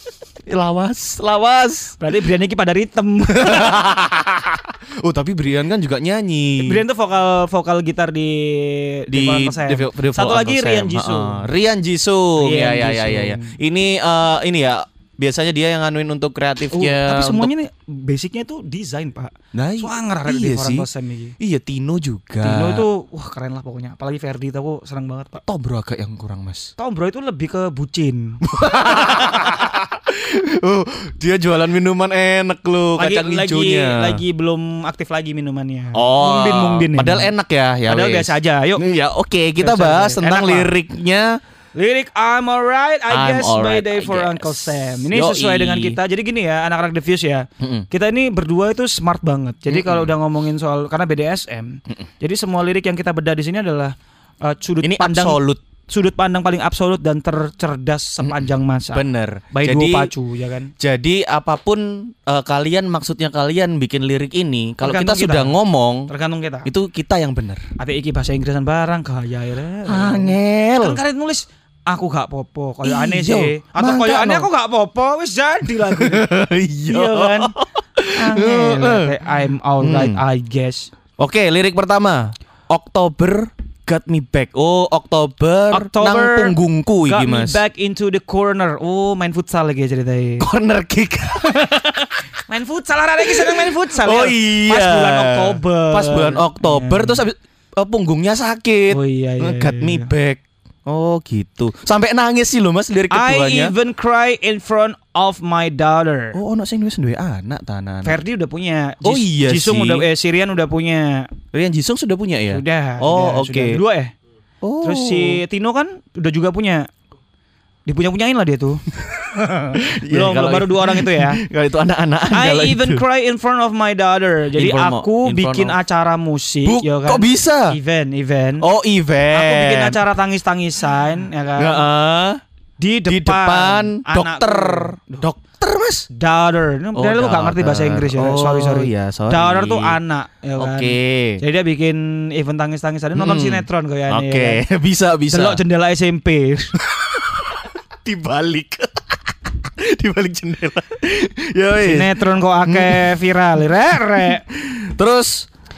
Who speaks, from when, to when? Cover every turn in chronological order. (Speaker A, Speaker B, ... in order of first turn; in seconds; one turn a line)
Speaker A: 0.5-2.0
Speaker B: 2.0-3.8
Speaker A: 3.4-6.8
Speaker B: 6.6-11.5
Speaker A: 9.1-17.5
Speaker B: 12.4-13.6
Speaker B: 16.7-21.4
Speaker A: 19.5-20.9
Speaker A: 21.4-22.9
Speaker B: 22.4-25.4
Speaker A: 25.4-26.7
Speaker B: 26.8-28.4
Speaker A: 28.4-34.2
Speaker B: 33.0-37.3
Speaker A: 35.9-41.4
Speaker B: 37.9-38.9
Speaker B: 39.6-40.7
Speaker B: 41.8-60.7
Speaker A: 43.1-46.0
Speaker A: 47.6-47.9
Speaker A: 49.7-50.1
Speaker A: 54.8-55.6
Speaker A: 58.2-60.1
Speaker A: 60.8-66.1
Speaker B: 64.8-65.5
Speaker B: 66.1-66.7
Speaker A: 66.7-67.7
Speaker B: 67.8-76.3
Speaker A: 69.9-71.0
Speaker A: 72.8-74.5
Speaker A: 75.8-79.2
Speaker B: 76.9-77.6
Speaker B: 78.1-80.9
Speaker A: 79.8-80.2
Speaker A: 81.2-87.6
Speaker B: 85.7-90.5
Speaker A: 90.4-92.1
Speaker B: 92.5-97.2
Speaker A: 93.2-103.7
Speaker B: 98.9-100.1
Speaker B: 103.1-106.4
Speaker A: 106.3-108.2
Speaker B: 108.0-111.3
Speaker A: 109.0-110.1
Speaker A: 111.5-113.8
Speaker B: 112.5-114.1
Speaker A: 114.6-115.4
Speaker B: 114.8-116.9
Speaker B: 117.9-121.4
Speaker A: 119.8-123.0
Speaker B: 122.3-128.7
Speaker A: 124.6-125.8
Speaker A: 126.6-127.8
Speaker A: 128.6-130.0
Speaker B: 129.3-131.8
Speaker A: 131.6-132.4
Speaker B: 132.8-135.3
Speaker A: 133.1-136.1
Speaker B: 136.1-144.6
Speaker A: 136.9-140.0
Speaker A: 140.6-141.4
Speaker A: 143.2-145.6
Speaker B: 145.3-146.8
Speaker A: 146.8-155.5
Speaker B: 151.8-154.4